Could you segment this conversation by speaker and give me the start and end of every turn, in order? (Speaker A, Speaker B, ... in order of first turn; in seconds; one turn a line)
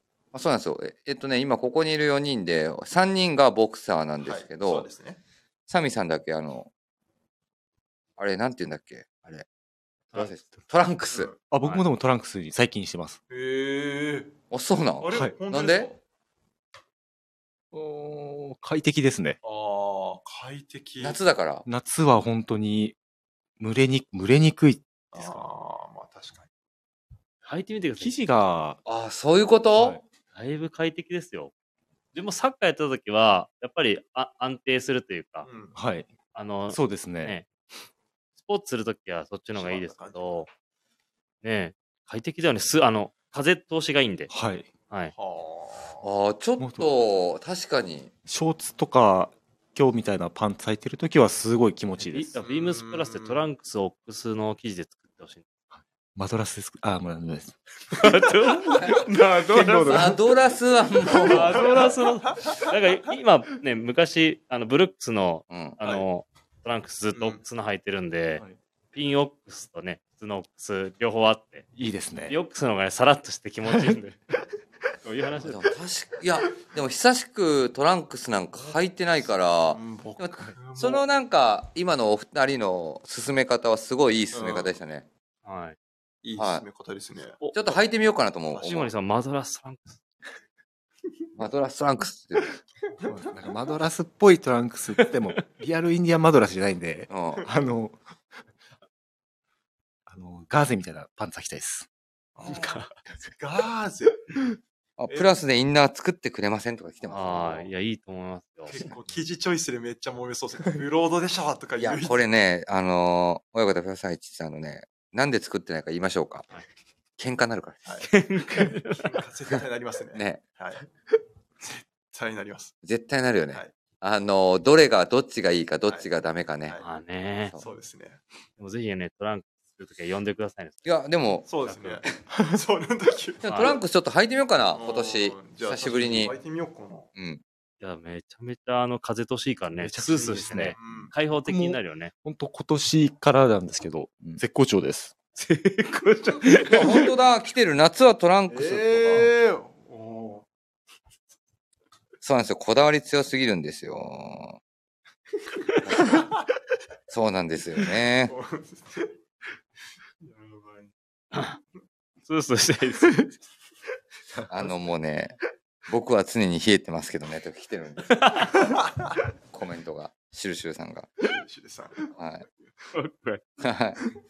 Speaker A: 0.3-4.9
Speaker B: 4.2-5.2
Speaker A: 5.7-6.7
Speaker A: 8.2-9.4
Speaker A: 10.1-11.3
Speaker C: 11.5-13.2
Speaker B: 13.3-14.3
Speaker A: 14.5-15.9
Speaker B: 15.0-16.0
Speaker C: 17.7-19.4
Speaker B: 19.4-21.2
Speaker A: 21.0-21.7
Speaker C: 21.7-22.9
Speaker C: 23.6-24.8
Speaker B: 25.1-26.5
Speaker D: 27.4-28.1
Speaker C: 28.0-28.8
Speaker A: 28.9-30.0
Speaker C: 29.8-30.0
Speaker D: 30.3-31.5
Speaker D: 32.1-35.5
Speaker B: 35.4-35.8
Speaker C: 35.8-36.1
Speaker D: 36.3-37.5
Speaker C: 36.7-37.4
Speaker D: 38.4-40.5
Speaker B: 39.5-40.4
Speaker D: 41.4-44.3
Speaker C: 44.3-44.7
Speaker B: 45.1-46.1
Speaker A: 46.0-48.1
Speaker C: 46.6-46.9
Speaker C: 48.3-52.3
Speaker D: 52.0-55.5
Speaker B: 52.4-53.4
Speaker C: 56.1-58.2
Speaker D: 57.9-60.1
Speaker C: 58.7-60.2
Speaker A: 59.9-61.8
Speaker D: 61.2-71.7
Speaker B: 61.5-61.9
Speaker A: 65.5-65.8
Speaker B: 67.2-67.4
Speaker C: 71.8-72.4
Speaker D: 72.3-74.2
Speaker C: 73.7-74.0
Speaker D: 75.0-75.7
Speaker A: 75.4-85.1
Speaker B: 79.7-81.0
Speaker B: 84.3-84.7
Speaker D: 85.5-85.8
Speaker B: 86.2-87.4
Speaker A: 86.4-86.7
Speaker A: 87.5-88.9
Speaker D: 88.6-90.0
Speaker A: 91.4-92.5
Speaker C: 93.0-98.0
Speaker D: 95.0-95.4
Speaker A: 97.1-97.5
Speaker C: 100.1-101.9
Speaker B: 102.4-104.2
Speaker D: 102.5-102.9
Speaker A: 105.0-107.7
Speaker B: 105.1-105.3
Speaker D: 107.1-108.8
Speaker B: 108.7-112.2
Speaker A: 111.8-116.5
Speaker A: 117.2-117.9
Speaker D: 118.0-119.2
Speaker B: 119.0-120.9
Speaker A: 120.1-120.4
Speaker B: 121.6-122.7
Speaker A: 122.8-126.8
Speaker D: 126.8-127.5
Speaker B: 127.6-128.2
Speaker D: 128.6-130.9
Speaker A: 130.8-131.5
Speaker B: 131.5-133.7
Speaker D: 131.7-132.0
Speaker A: 133.4-136.3
Speaker D: 133.4-133.8
Speaker B: 134.7-137.1
Speaker A: 137.2-137.4
Speaker D: 137.8-142.1
Speaker C: 139.8-140.8
Speaker B: 140.5-141.1
Speaker C: 141.4-146.8
Speaker D: 146.1-146.7
Speaker A: 146.7-149.3
Speaker B: 148.5-150.4
Speaker A: 152.2-154.6
Speaker B: 155.8-156.3
Speaker A: 155.9-156.2
Speaker A: 157.1-158.3
Speaker B: 158.3-159.1
Speaker B: 160.2-160.9
Speaker D: 161.3-161.6
Speaker D: 162.3-163.3
Speaker A: 164.5-168.2
Speaker D: 168.1-168.6
Speaker A: 169.5-171.2
Speaker B: 171.2-172.2
Speaker A: 172.2-172.4
Speaker D: 172.9-173.4
Speaker A: 173.6-174.0